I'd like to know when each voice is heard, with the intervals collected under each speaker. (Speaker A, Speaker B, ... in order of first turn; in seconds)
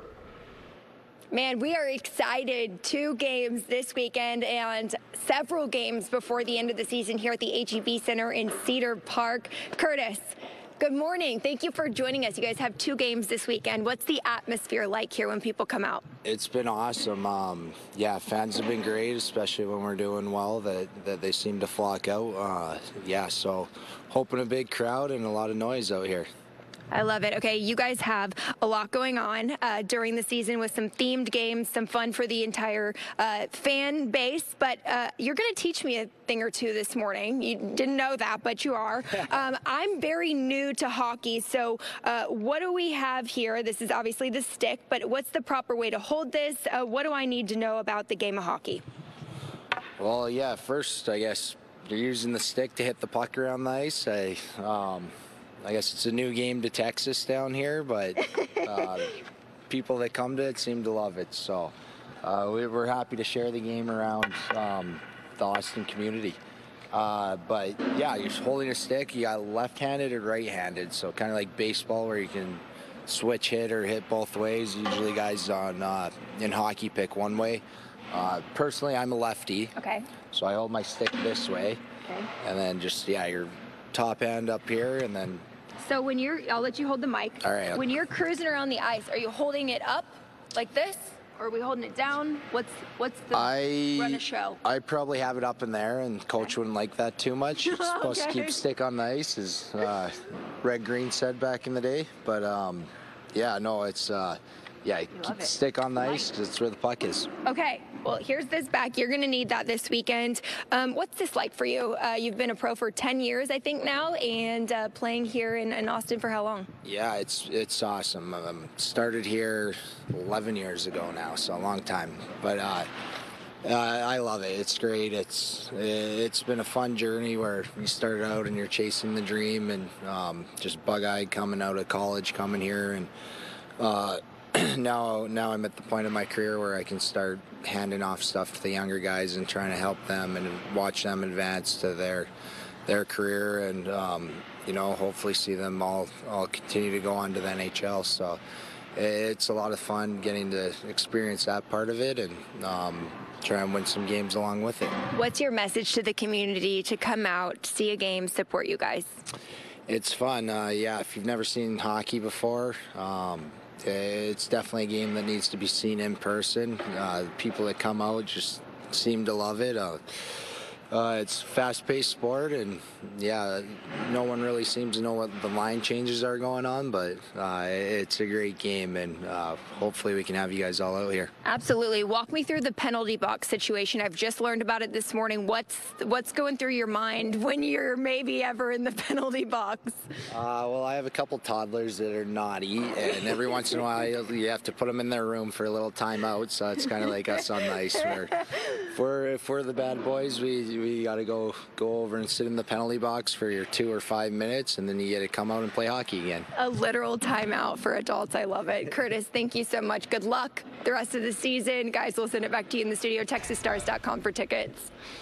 Speaker A: 1.3-16.1, 26.9-48.8, 79.8-80.1, 85.8-94.6, 97.7-98.6, 105.2-105.5, 107.5-116.7, 155.1-159.2, 181.4-190.1, 206.6-214.9
Speaker B: 16.2-26.3, 50.0-59.2, 59.7-66.4, 66.9-79.7, 80.3-81.8, 82.4-85.5, 87.4-87.8, 93.3-107.3, 116.8-122.9, 123.6-133.1, 133.8-142.3, 142.9-148.4, 148.9-155.0, 159.9-170.0, 170.9-181.3, 190.3-206.5